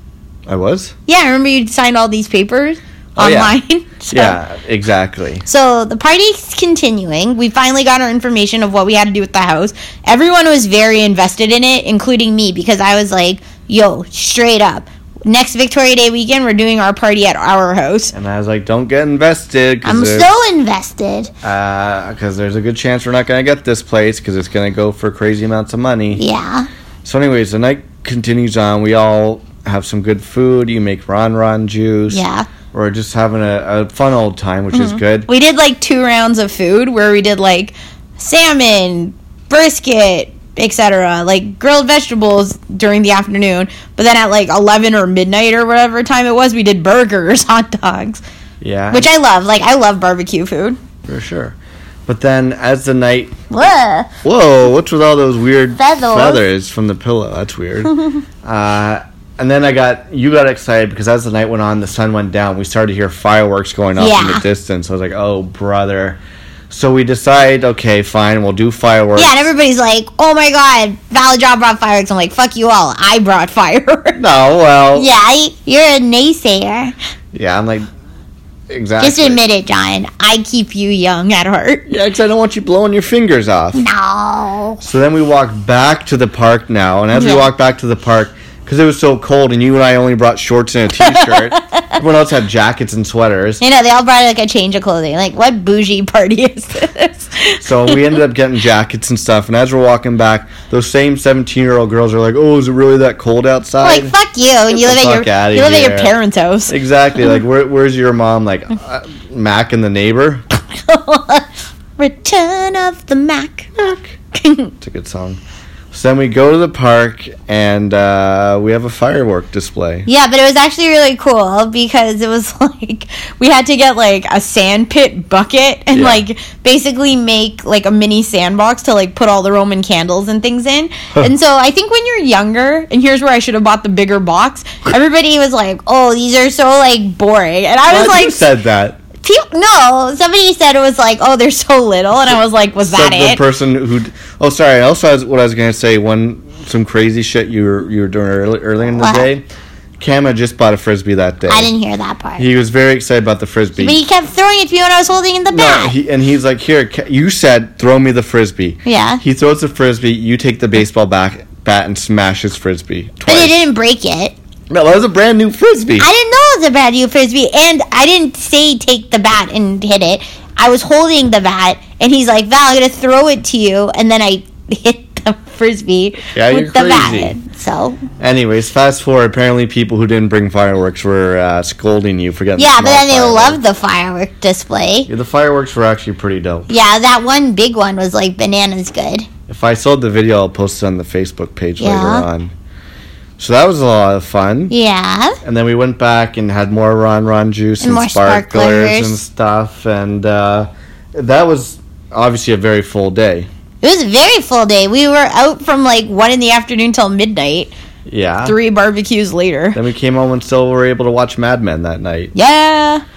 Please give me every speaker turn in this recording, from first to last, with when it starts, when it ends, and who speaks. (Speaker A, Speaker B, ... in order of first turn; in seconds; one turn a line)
Speaker A: 0.5-0.9
Speaker B: 1.1-4.4
Speaker A: 3.2-3.6
Speaker A: 4.1-5.4
Speaker B: 5.5-18.1
Speaker A: 18.1-20.3
Speaker B: 19.8-21.3
Speaker A: 21.4-26.2
Speaker B: 26.1-26.7
Speaker A: 27.0-35.3
Speaker B: 32.1-32.5
Speaker B: 34.7-48.2
Speaker A: 48.6-49.1
Speaker B: 48.9-50.8
Speaker A: 51.0-51.5
Speaker A: 52.1-53.4
Speaker B: 53.5-54.1
Speaker A: 54.2-69.4
Speaker B: 55.8-56.4
Speaker B: 57.9-58.2
Speaker B: 64.0-64.4
Speaker B: 69.2-74.2
Speaker A: 74.2-75.1
Speaker B: 74.9-76.9
Speaker A: 77.3-77.9
Speaker A: 78.7-79.4
Speaker B: 79.0-81.9
Speaker A: 81.9-83.8
Speaker B: 83.7-84.8
Speaker A: 84.8-93.6
Speaker B: 87.1-87.5
Speaker B: 91.0-92.0
Speaker B: 93.6-98.0
Speaker A: 97.6-104.2
Speaker B: 103.8-106.8
Speaker A: 104.7-106.2
Speaker A: 106.7-110.5
Speaker B: 110.5-111.5
Speaker B: 112.0-113.7
Speaker A: 113.8-114.2
Speaker B: 114.3-114.7
Speaker A: 114.8-115.4
Speaker A: 115.9-120.1
Speaker B: 120.1-138.5
Speaker A: 125.9-126.2
Speaker A: 137.9-139.0
Speaker B: 139.2-143.4
Speaker A: 142.8-149.5
Speaker B: 149.0-149.3
Speaker A: 150.0-151.7
Speaker B: 151.5-152.5
Speaker A: 152.4-154.0
Speaker B: 153.8-155.9
Speaker A: 155.5-163.6
Speaker B: 158.9-159.2
Speaker B: 163.3-164.3
Speaker A: 164.7-166.1
Speaker B: 166.0-178.0
Speaker A: 176.3-177.4
Speaker A: 178.2-183.6
Speaker B: 182.6-185.1
Speaker A: 185.1-186.7
Speaker B: 186.7-189.3
Speaker A: 189.5-192.5
Speaker B: 191.8-192.3
Speaker A: 193.4-194.7
Speaker B: 194.7-195.4
Speaker A: 195.4-203.5
Speaker B: 197.8-199.2
Speaker B: 203.8-207.7
Speaker A: 208.1-208.6
Speaker B: 208.4-209.8
Speaker A: 209.7-212.3
Speaker B: 212.3-213.0